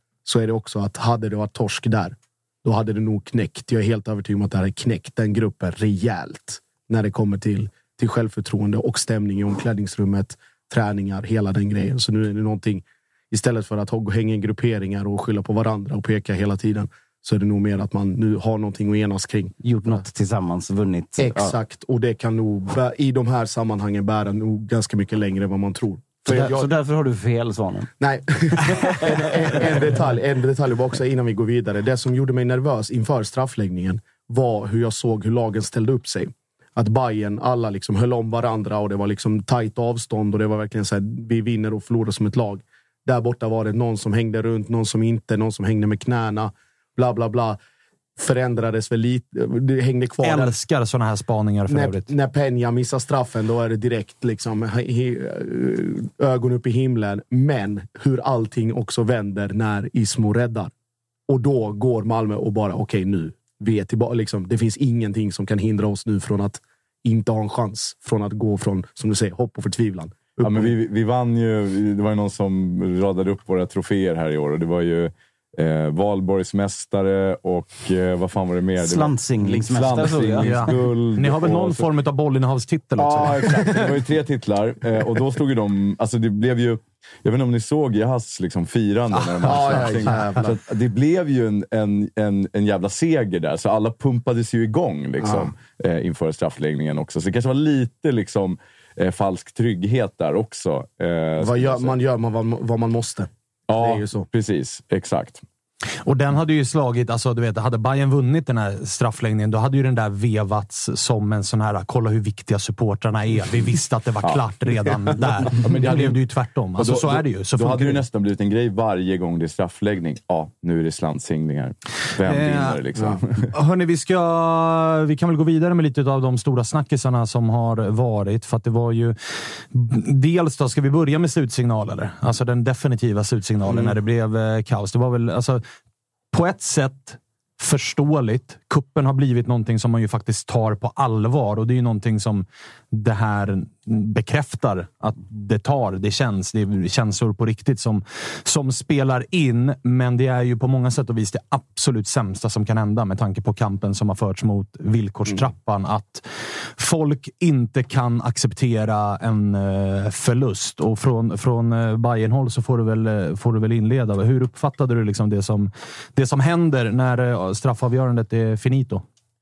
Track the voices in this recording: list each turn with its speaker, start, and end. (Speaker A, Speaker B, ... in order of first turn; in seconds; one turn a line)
Speaker A: 0.2-20.0
Speaker B: 19.6-21.6
Speaker A: 21.2-26.7
Speaker B: 26.3-27.9
Speaker A: 28.0-47.6
Speaker B: 28.7-29.2
Speaker A: 48.2-50.5
Speaker C: 50.2-52.1
Speaker A: 51.7-60.7
Speaker A: 61.3-70.7
Speaker D: 70.4-81.9
Speaker B: 78.8-80.7
Speaker C: 80.4-83.6
Speaker D: 83.0-102.0
Speaker A: 83.6-83.8
Speaker A: 89.4-90.5
Speaker C: 89.8-90.3
Speaker A: 95.2-95.5
Speaker A: 101.4-104.3
Speaker D: 103.7-105.4
Speaker C: 106.0-118.0
Speaker D: 115.5-116.2
Speaker D: 116.8-123.5
Speaker C: 122.2-122.8
Speaker C: 123.5-129.2
Speaker C: 129.7-135.6
Speaker C: 136.3-156.2
Speaker C: 156.8-169.0